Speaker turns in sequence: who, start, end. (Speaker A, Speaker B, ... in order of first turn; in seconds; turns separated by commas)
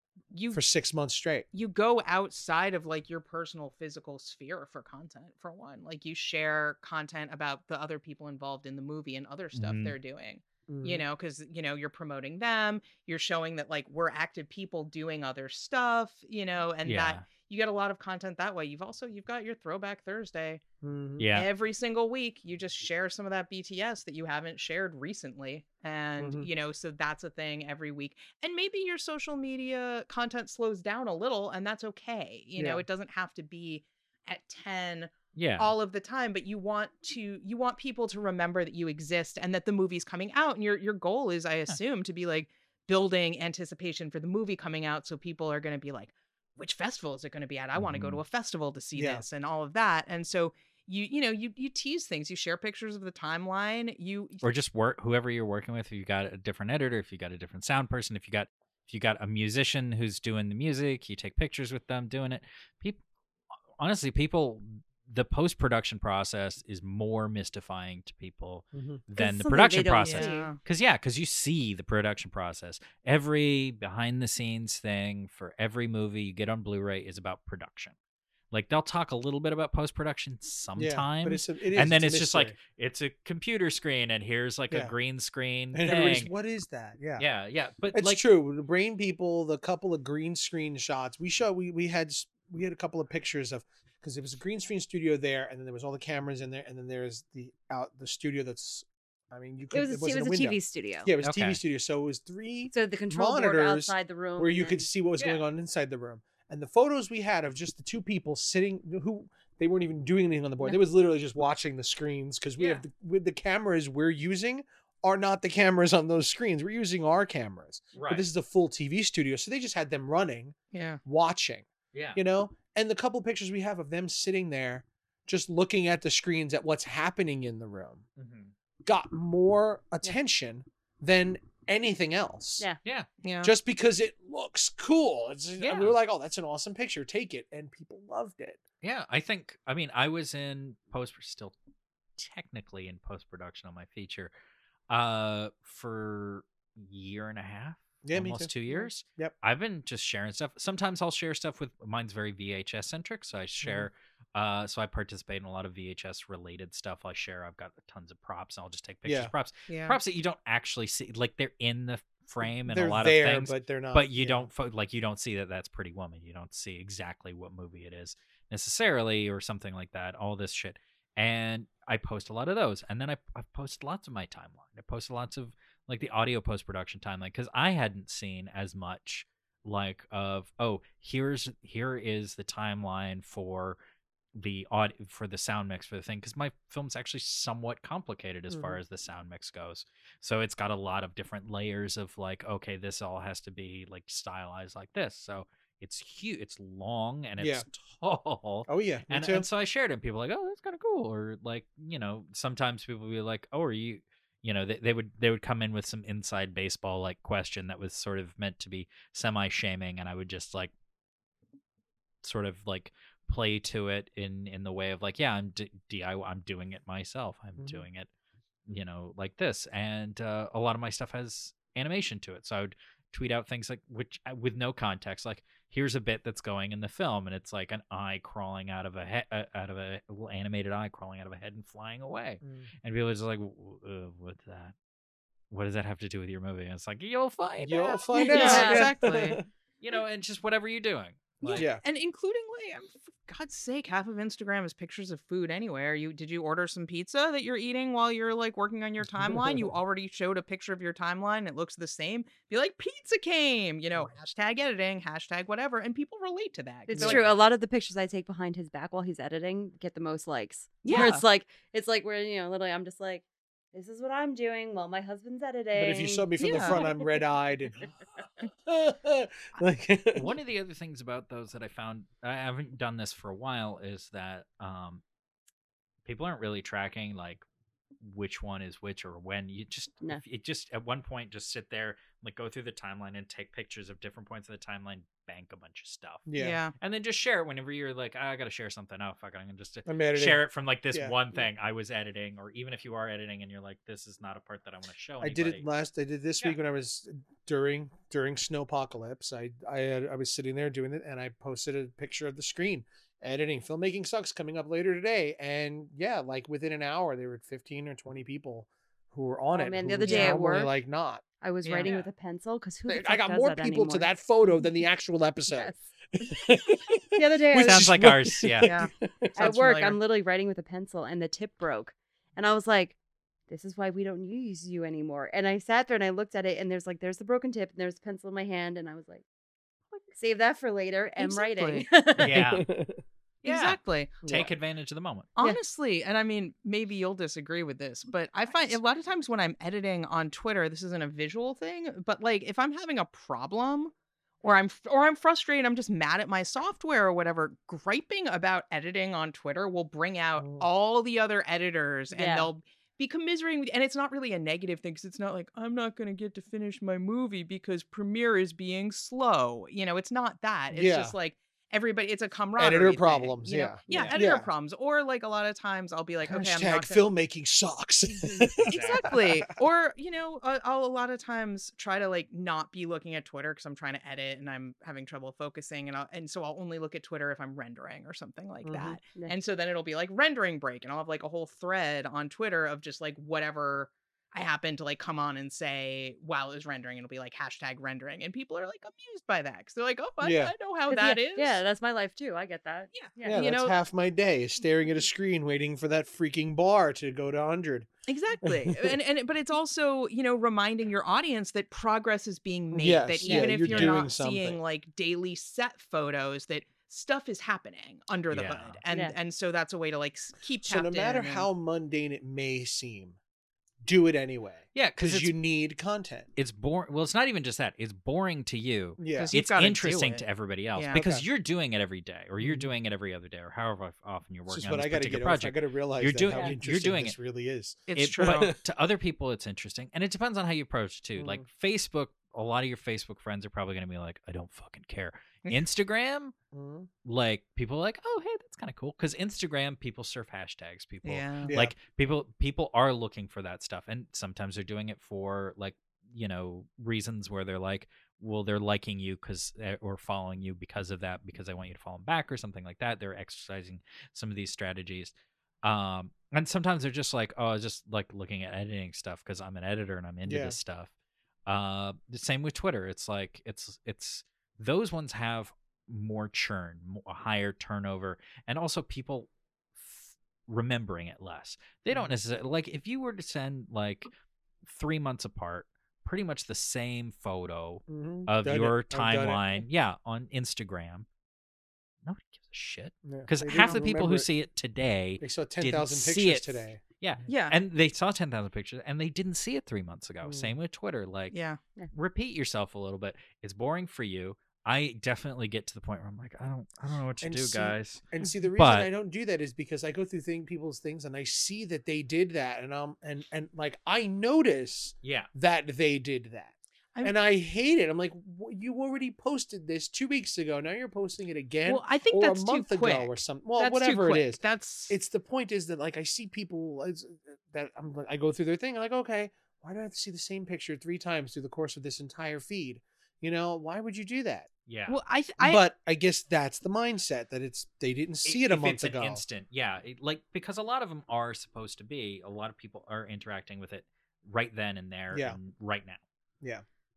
Speaker A: 0.3-0.6, Speaker B: 0.5-1.5, Speaker A: 1.5-20.6, Speaker C: 9.5-9.9, Speaker B: 10.7-11.0, Speaker C: 16.8-17.2, Speaker B: 20.8-21.2, Speaker C: 21.2-21.5, Speaker A: 21.3-54.4, Speaker B: 26.2-26.5, Speaker B: 32.6-32.8, Speaker C: 35.3-35.7, Speaker C: 47.7-48.2, Speaker B: 48.9-49.2, Speaker C: 54.4-63.0, Speaker C: 63.8-77.9, Speaker B: 68.7-69.0, Speaker D: 69.2-70.5, Speaker A: 70.0-70.6, Speaker C: 78.5-86.3, Speaker B: 80.8-82.5, Speaker B: 85.7-87.2, Speaker C: 87.2-88.2, Speaker B: 87.9-128.0, Speaker D: 99.7-101.1, Speaker C: 101.2-101.6, Speaker D: 102.7-104.8, Speaker C: 105.2-105.4, Speaker A: 112.6-112.8, Speaker C: 117.9-118.2, Speaker A: 120.7-121.0, Speaker C: 121.9-122.2, Speaker C: 128.2-128.5, Speaker B: 128.8-132.7, Speaker A: 133.2-133.5, Speaker B: 133.4-138.6, Speaker C: 135.6-135.9, Speaker C: 138.8-141.5, Speaker C: 142.2-144.3, Speaker C: 144.9-183.8, Speaker B: 148.0-148.5, Speaker B: 153.6-153.9, Speaker B: 159.0-159.3, Speaker A: 159.7-160.0, Speaker B: 162.7-164.5, Speaker C: 184.3-210.7, Speaker B: 188.5-188.8, Speaker B: 197.4-197.7, Speaker B: 198.7-199.4, Speaker C: 212.2-218.1, Speaker B: 217.6-217.8, Speaker C: 218.7-234.7, Speaker B: 232.4-232.7, Speaker C: 235.5-238.8, Speaker B: 237.6-239.4, Speaker D: 238.1-238.9, Speaker A: 238.2-239.4, Speaker C: 239.8-241.7, Speaker A: 241.4-257.2, Speaker B: 241.5-241.8, Speaker B: 249.2-249.7, Speaker D: 256.9-267.1, Speaker B: 257.0-257.2, Speaker A: 260.8-261.2, Speaker B: 265.7-267.9, Speaker A: 266.4-266.8, Speaker B: 268.4-270.3, Speaker C: 270.1-275.0, Speaker C: 276.0-277.4, Speaker C: 278.0-286.3, Speaker B: 286.3-286.6, Speaker A: 286.4-286.7, Speaker C: 286.8-295.6, Speaker B: 289.9-291.1, Speaker B: 295.2-311.2, Speaker D: 309.5-310.7, Speaker A: 310.0-310.4, Speaker D: 311.4-314.1, Speaker A: 311.6-311.9, Speaker C: 311.8-312.1, Speaker B: 312.9-319.4, Speaker D: 315.5-315.8, Speaker D: 317.1-317.9, Speaker C: 317.5-318.7, Speaker A: 318.6-320.0, Speaker D: 319.4-322.9, Speaker D: 323.5-329.2, Speaker D: 330.1-332.4, Speaker A: 331.2-331.9, Speaker C: 332.1-332.7, Speaker B: 332.2-333.0, Speaker A: 333.4-334.1, Speaker C: 333.4-335.3, Speaker B: 334.2-334.5, Speaker A: 335.4-367.0, Speaker B: 350.4-350.6, Speaker D: 352.1-352.5, Speaker B: 360.7-361.1, Speaker B: 362.6-364.5, Speaker D: 363.9-364.2, Speaker B: 366.2-369.4, Speaker A: 368.7-391.6, Speaker C: 368.7-369.0, Speaker B: 378.6-379.0, Speaker B: 390.2-390.5, Speaker D: 390.9-393.4, Speaker A: 392.9-393.7, Speaker B: 393.2-397.9, Speaker A: 398.1-411.5, Speaker B: 398.4-399.0, Speaker B: 402.7-404.6, Speaker D: 403.2-403.6, Speaker C: 403.7-404.0, Speaker C: 408.3-408.8, Speaker D: 408.9-409.1, Speaker B: 410.6-413.2, Speaker B: 413.8-416.3, Speaker C: 414.7-415.3, Speaker C: 416.4-427.2, Speaker B: 419.0-419.3, Speaker A: 419.1-420.2, Speaker B: 420.9-421.2, Speaker B: 422.4-422.7, Speaker B: 424.5-428.6, Speaker A: 427.9-428.5, Speaker C: 427.9-436.3, Speaker B: 431.1-431.4, Speaker B: 436.5-436.9, Speaker C: 437.0-460.9, Speaker A: 441.0-441.5, Speaker B: 441.5-441.7, Speaker B: 460.2-460.6, Speaker C: 461.5-474.1, Speaker C: 474.6-481.1, Speaker B: 477.9-479.6, Speaker C: 482.0-491.4, Speaker B: 483.0-484.3, Speaker B: 485.2-486.8, Speaker A: 487.3-487.6, Speaker B: 490.2-490.5, Speaker A: 491.3-491.6, Speaker C: 491.9-498.0, Speaker B: 497.2-524.5, Speaker C: 498.5-498.9, Speaker C: 505.0-505.3, Speaker A: 511.6-515.0, Speaker C: 524.7-525.0, Speaker A: 524.9-525.6, Speaker B: 525.4-529.2, Speaker C: 528.2-536.0, Speaker B: 535.1-535.4